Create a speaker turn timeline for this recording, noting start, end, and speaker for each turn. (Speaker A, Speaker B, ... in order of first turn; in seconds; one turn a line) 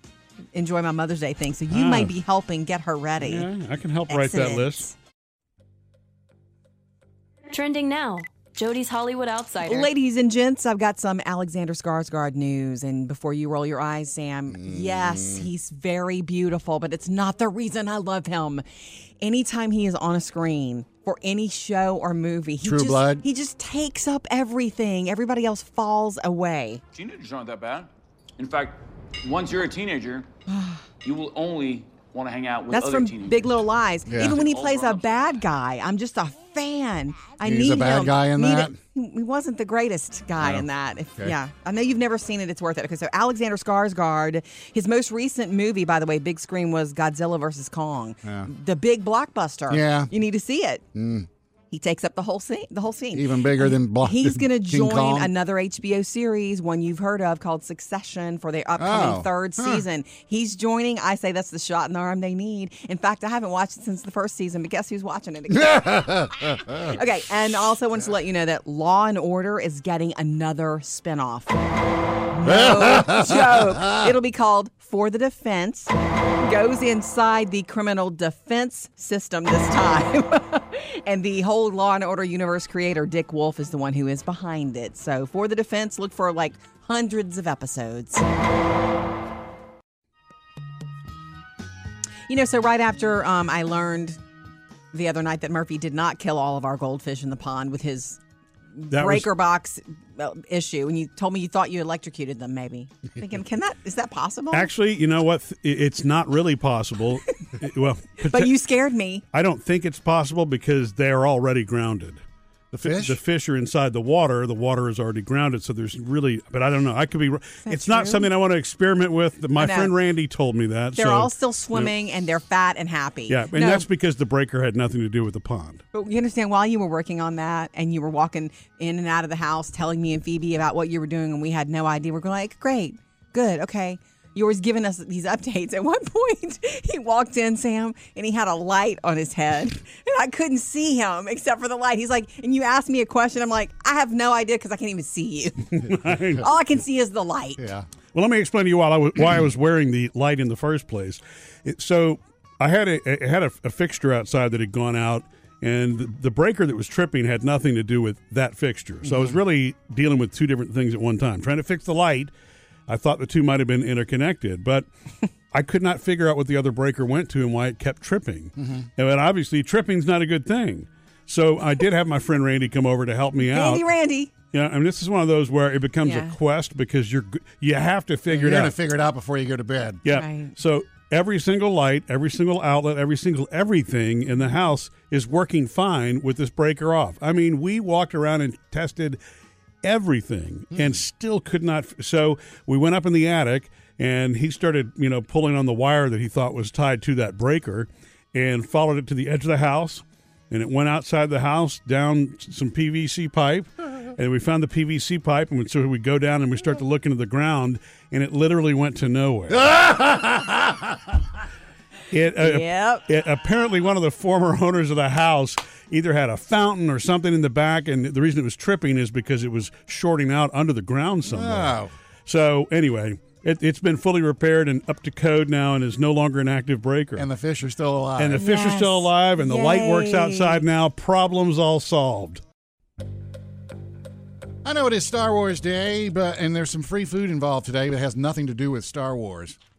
Speaker A: 0.5-3.5
Speaker B: 1.7-2.1
Speaker B: 3.2-4.9
Speaker A: 4.1-4.9
Speaker C: 7.5-9.9
Speaker A: 9.6-26.8
Speaker D: 14.5-15.5
Speaker D: 22.6-23.2
Speaker E: 26.9-30.3
Speaker A: 30.5-30.9
Speaker E: 31.0-35.4
Speaker A: 32.7-50.8
Speaker D: 34.1-34.4
Speaker D: 37.4-38.8
Speaker D: 40.4-40.7
Speaker D: 48.2-48.5
Speaker D: 49.7-50.1
Speaker D: 50.9-51.3
Speaker A: 51.7-71.5
Speaker D: 53.1-55.3
Speaker D: 58.8-59.9
Speaker D: 65.6-67.0
Speaker A: 72.3-88.2
Speaker D: 72.4-74.1
Speaker A: 92.3-94.2
Speaker A: 94.9-98.2
Speaker A: 98.8-104.7
Speaker B: 98.9-99.3
Speaker B: 104.5-108.5
Speaker A: 108.2-109.2
Speaker B: 109.3-112.2
Speaker D: 112.7-113.2
Speaker B: 112.8-121.9
Speaker A: 117.6-118.3
Speaker A: 119.6-119.9
Speaker A: 120.9-123.8
Speaker B: 123.3-125.8
Speaker A: 125.9-147.6
Speaker B: 145.7-146.5
Speaker D: 147.6-147.9
Speaker B: 148.1-162.3
Speaker D: 159.0-159.3
Speaker B: 162.9-164.9
Speaker B: 165.5-173.9
Speaker D: 168.6-168.9
Speaker A: 173.4-174.3
Speaker B: 174.5-178.7
Speaker A: 176.0-176.4
Speaker D: 178.3-180.0
Speaker B: 180.0-189.2
Speaker A: 180.1-180.5
Speaker B: 189.8-209.8
Speaker D: 209.5-210.9
Speaker B: 212.1-227.3
Speaker A: 212.4-213.1
Speaker D: 221.2-221.9
Speaker D: 227.2-228.4
Speaker B: 228.2-232.4
Speaker A: 228.4-230.6
Speaker D: 234.6-239.6